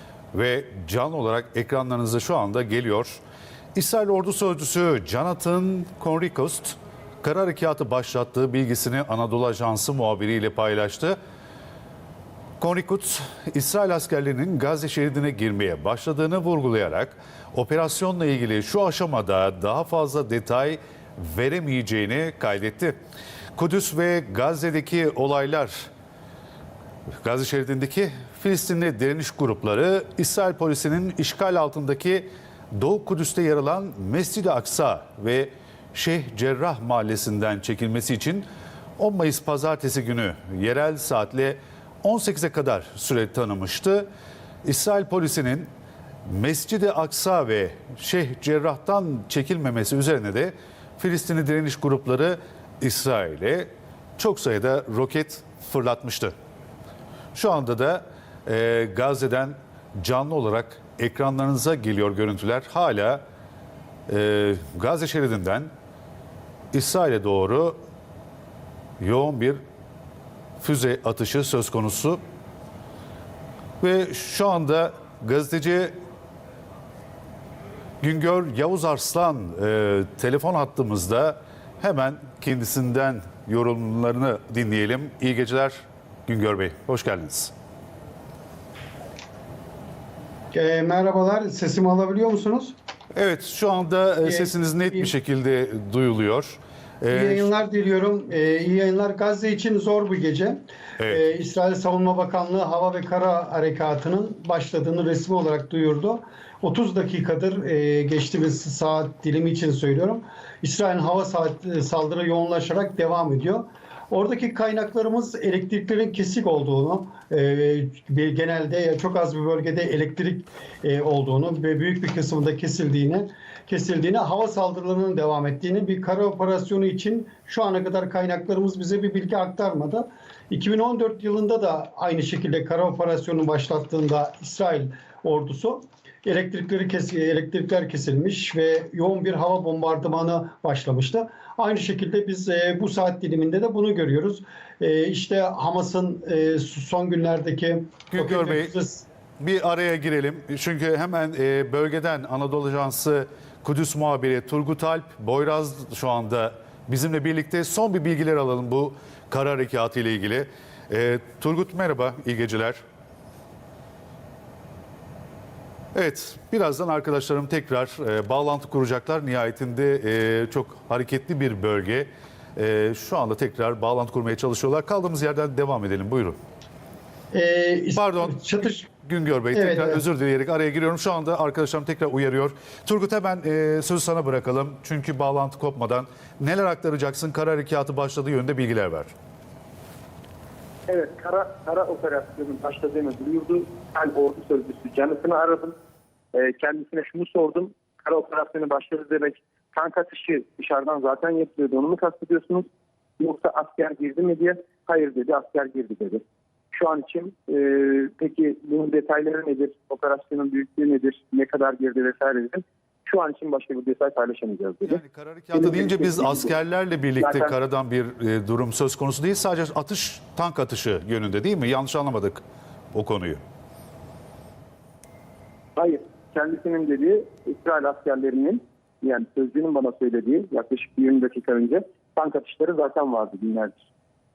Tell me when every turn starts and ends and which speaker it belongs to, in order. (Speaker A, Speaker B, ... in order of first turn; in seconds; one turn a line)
Speaker A: 0.3-3.2
Speaker A: 3.8-11.2
Speaker A: 12.6-23.0
Speaker A: 23.6-25.9
Speaker A: 27.2-38.5
Speaker A: 39.0-44.1
Speaker A: 44.6-45.7
Speaker A: 46.3-56.4
Speaker A: 57.3-63.2
Speaker A: 64.1-65.7
Speaker A: 66.7-67.8
Speaker A: 69.0-69.6
Speaker A: 70.6-72.2
Speaker A: 73.8-76.0
Speaker A: 78.0-87.5
Speaker B: 90.5-92.8
Speaker A: 93.2-97.5
Speaker B: 94.2-95.1
Speaker B: 97.1-149.1
Speaker A: 148.1-148.7
Speaker A: 149.4-162.8
Speaker A: 165.9-176.4
Speaker B: 177.3-178.9
Speaker A: 178.0-178.4
Speaker A: 178.9-189.1
Speaker B: 179.5-180.0
Speaker C: 190.9-195.8
Speaker C: 196.3-202.7
Speaker C: 203.2-206.2
Speaker C: 206.7-215.0
Speaker A: 214.9-222.4
Speaker C: 215.5-216.5
Speaker C: 217.2-217.6
Speaker A: 222.9-223.4
Speaker C: 225.8-233.9